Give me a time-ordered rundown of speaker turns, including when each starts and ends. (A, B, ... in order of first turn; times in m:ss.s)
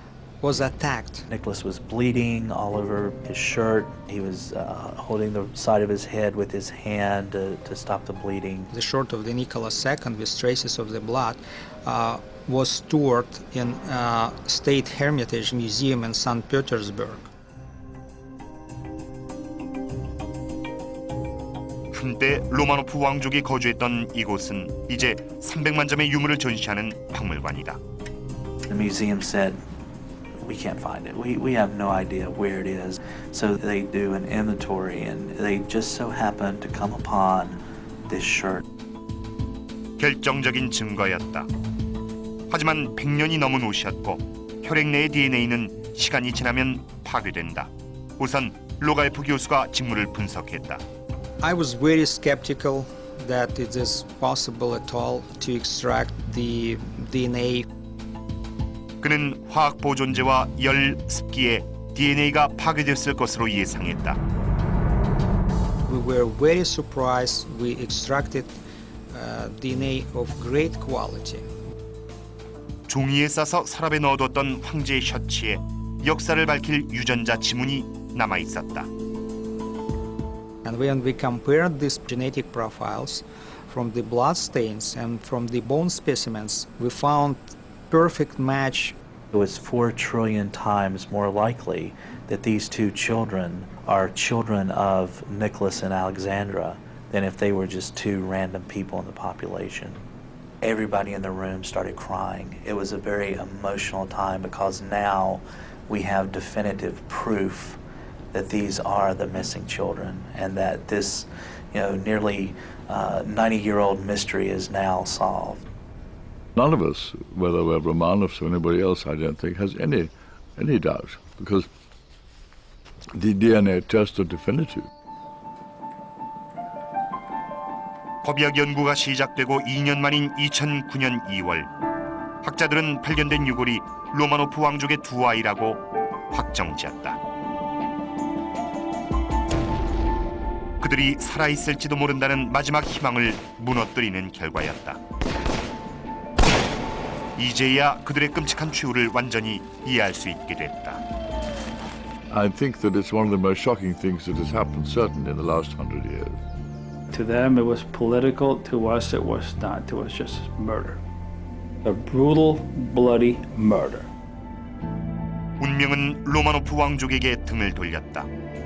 0:00.4-0:01.3 A
0:01.3-0:08.7 B
0:08.7-0:17.3 A
0:21.9-0:27.8 C
0:28.7-0:29.6 B
0:30.4-0:38.6 B
0:40.0-0:41.5 C
0:42.5-0:50.8 C
0:51.4-0:57.7 A
0:59.0-1:04.2 C
1:05.9-1:08.6 A
1:09.1-1:11.5 A
1:12.9-1:18.9 C
1:20.6-1:29.0 A
1:29.3-1:40.0 B
1:40.6-1:47.8 B
1:48.3-1:55.7 B
1:56.6-2:01.7 D
2:03.1-2:04.9 D
2:08.2-2:11.7 C
2:12.4-2:17.2 C
2:20.8-2:25.0 C
2:27.4-2:31.0 C
2:32.3-2:36.4 D
2:37.1-2:41.0 E
2:41.8-2:44.1 E
2:45.6-2:48.3 C